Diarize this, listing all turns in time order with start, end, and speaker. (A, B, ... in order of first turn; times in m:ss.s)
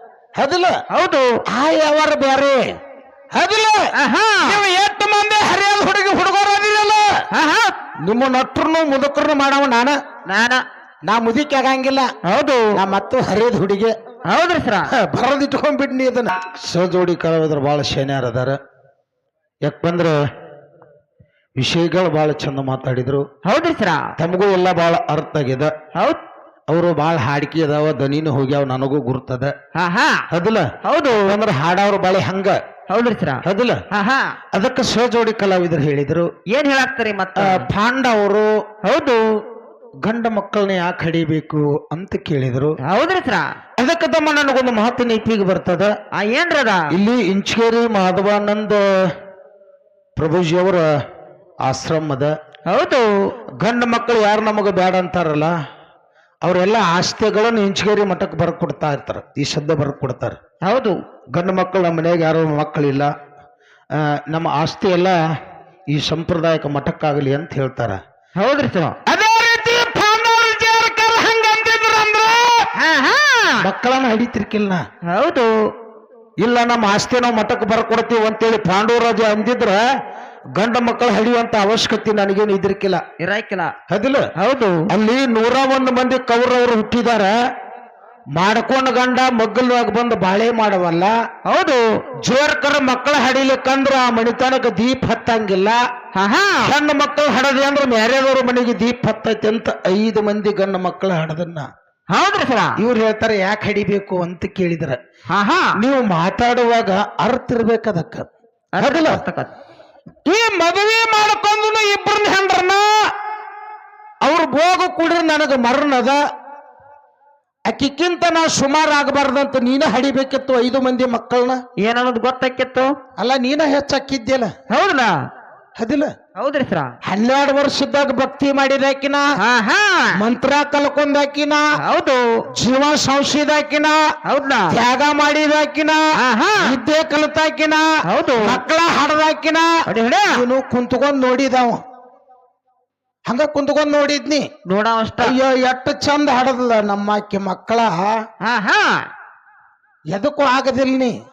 0:00.4-0:00.7 A
0:00.9-0:01.3 B
0:01.5-0:02.6 A
0:03.3-0:03.9 A
0:04.0-0:04.6 B
0:04.4-0:07.2 A
0:07.3-0:07.7 B
0:08.0-0:10.0 A
0:10.3-0:10.6 B
0:11.1-0:12.1 A
0:12.2-0:12.8 B
0:12.7-0:13.9 A
0:14.2-0:14.9 B
0:14.9-0:18.6 A
0:19.6-0:20.2 A
0:21.6-0:23.2 A
0:23.4-0:24.1 B
0:24.2-0:25.7 A
0:25.9-0:26.2 B
0:26.7-0:29.5 A
0:29.7-0:30.2 B
0:30.3-0:30.7 A
0:30.8-0:31.3 B
0:31.2-0:32.6 A
0:32.9-0:34.4 B
0:33.4-0:33.8 A
0:34.5-0:36.3 A
0:36.5-0:37.7 B
0:37.4-0:38.5 A
0:38.8-0:39.2 B
0:40.0-0:42.8 A
0:42.8-0:43.6 B
0:43.8-0:45.9 A
0:46.1-0:46.9 B
0:46.9-0:48.8 A
0:50.2-0:50.8 A
0:51.6-0:52.3 A
0:52.7-0:53.3 B
0:53.6-0:55.5 A
0:56.4-1:00.4 A
1:00.6-1:01.0 B
1:01.3-1:03.1 A
1:04.0-1:05.2 A
1:05.9-1:08.0 A
1:08.4-1:09.0 B
1:09.1-1:12.7 A
1:12.8-1:13.6 B
1:13.6-1:14.8 A
1:15.0-1:15.5 B
1:16.4-1:19.8 A
1:20.5-1:23.0 A
1:23.2-1:23.7 B
1:23.9-1:24.3 A
1:24.4-1:24.8 B
1:24.9-1:27.3 A
1:28.3-1:31.1 A
1:31.4-1:31.8 B
1:32.2-1:35.8 A
1:36.1-1:36.7 B
1:36.6-1:41.7 A
1:42.1-1:42.8 B
1:42.8-1:45.0 A
1:45.3-1:45.7 B
1:45.8-1:48.2 A
1:48.7-1:49.5 B
1:48.8-1:49.2 A
1:50.2-1:53.0 A
1:54.2-1:56.2 A
1:57.7-2:01.6 A
2:01.8-2:02.9 B
2:03.2-2:04.5 A
2:04.7-2:05.2 B
2:05.8-2:06.1 A
2:06.4-2:06.9 B
2:07.0-2:09.2 A
2:09.4-2:10.2 B
2:10.1-2:11.6 A
2:11.8-2:12.4 B
2:12.5-2:14.0 A
2:14.2-2:14.8 B
2:14.7-2:16.0 A
2:16.2-2:16.8 B
2:16.6-2:17.8 A
2:18.0-2:18.6 B
2:18.4-2:19.7 A
2:19.9-2:20.4 B
2:20.3-2:21.8 A
2:23.3-2:24.5 A
2:24.6-2:25.4 B
2:25.2-2:28.2 A
2:28.4-2:29.1 B
2:30.1-2:31.1 A